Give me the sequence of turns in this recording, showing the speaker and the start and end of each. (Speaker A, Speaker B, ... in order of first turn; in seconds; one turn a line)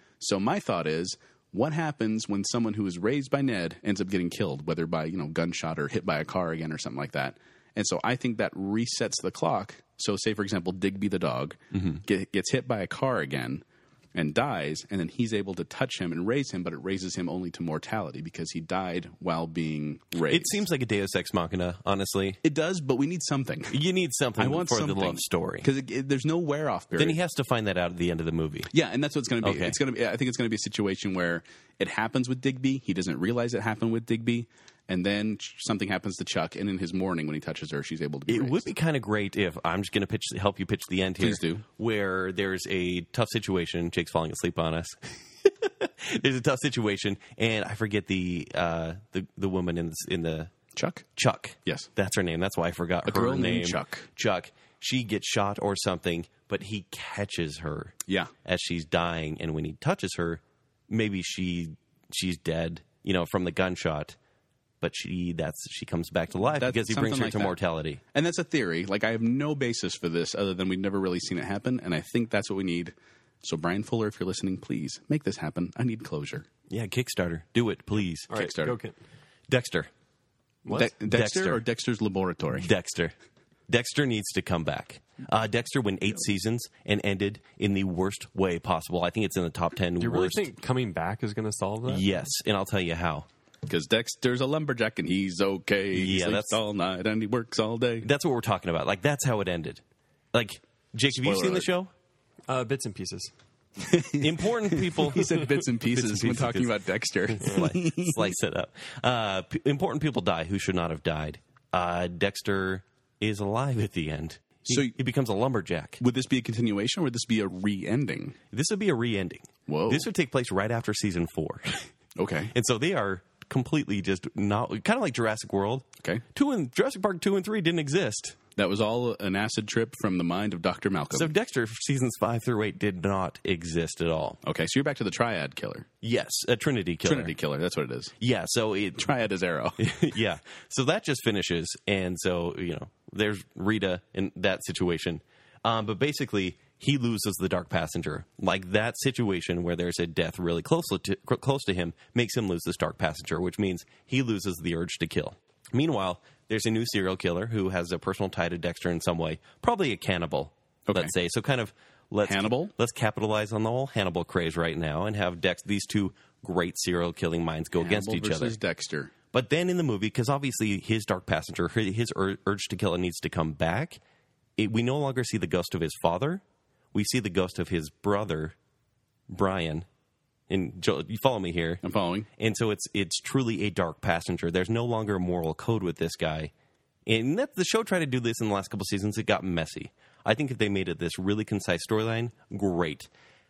Speaker A: 0.2-20.6
Speaker B: 11.8-12.0
Speaker B: 20.3-22.4
Speaker A: 22.4-23.8
Speaker B: 23.7-25.7
Speaker A: 24.4-27.2
Speaker B: 27.0-28.7
Speaker A: 28.7-38.7
Speaker B: 29.4-29.8
Speaker B: 38.3-50.5
Speaker A: 41.2-41.6
Speaker A: 50.8-51.0
Speaker B: 51.2-64.2
Speaker A: 53.0-54.1
Speaker B: 64.8-68.0
Speaker A: 66.5-67.5
Speaker A: 68.1-76.5
Speaker B: 76.7-78.3
Speaker A: 78.3-78.8
Speaker C: 78.3-79.0
Speaker B: 79.5-79.9
Speaker C: 80.7-80.9
Speaker A: 80.7-82.7
Speaker B: 80.8-81.6
Speaker B: 82.5-83.1
Speaker B: 83.7-90.5
Speaker C: 90.0-92.1
Speaker B: 91.9-93.3
Speaker A: 93.7-98.1
Speaker B: 95.9-96.6
Speaker B: 98.0-99.8
Speaker B: 100.3-101.9
Speaker A: 101.2-101.7
Speaker C: 102.5-103.3
Speaker A: 103.8-108.3
Speaker B: 104.2-106.8
Speaker B: 107.4-116.0
Speaker A: 114.7-115.0
Speaker A: 116.0-118.4
Speaker B: 118.5-121.9
Speaker A: 119.7-120.1
Speaker A: 122.2-122.5
Speaker B: 122.5-128.4
Speaker A: 128.6-131.3
Speaker B: 131.1-134.4
Speaker A: 134.4-135.9
Speaker B: 136.0-137.3
Speaker A: 137.0-138.1
Speaker B: 138.2-139.1
Speaker A: 139.0-139.8
Speaker B: 139.8-168.6
Speaker A: 160.9-161.1
Speaker A: 162.2-162.7
Speaker A: 167.8-169.1
Speaker B: 169.3-174.0
Speaker B: 174.6-178.6
Speaker B: 179.3-179.9
Speaker B: 180.5-181.8
Speaker A: 181.8-182.3
Speaker B: 182.4-186.5
Speaker B: 187.1-193.1